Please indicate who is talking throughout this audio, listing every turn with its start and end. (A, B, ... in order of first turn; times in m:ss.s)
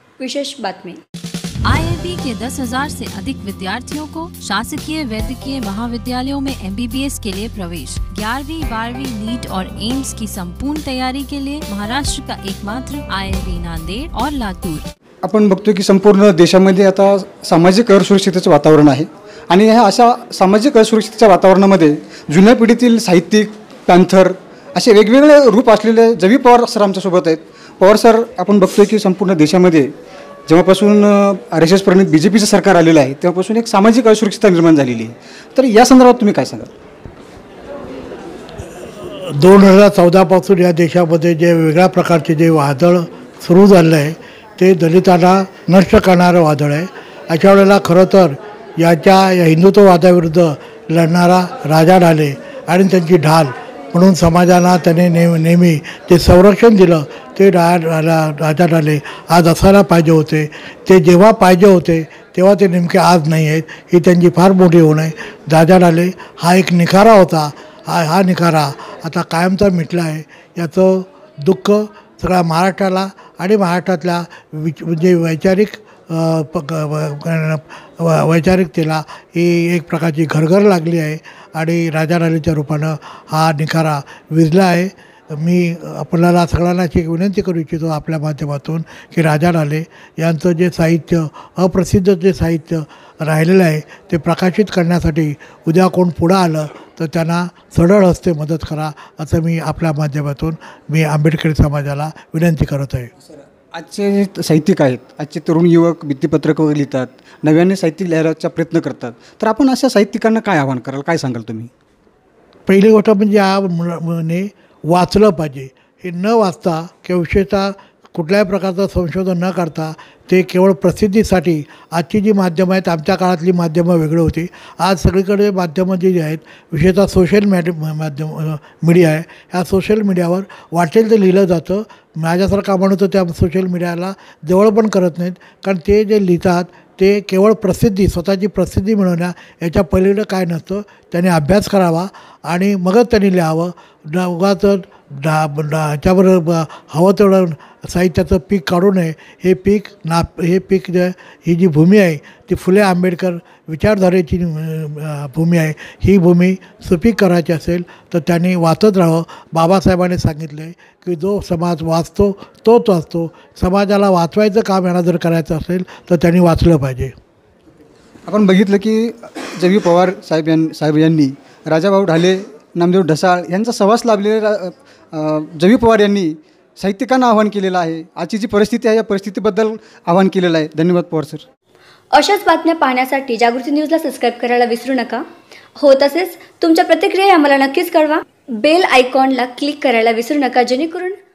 0:00.2-0:01.0 A
0:01.6-0:14.8 B
0:15.2-0:29.9 C
0:30.5-0:36.7 C
0:39.2-1:43.1 D
1:43.7-1:51.7 C
1:52.7-2:47.1 D
2:48.2-3:01.4 C
3:02.1-3:05.2 A
3:05.8-3:11.2 A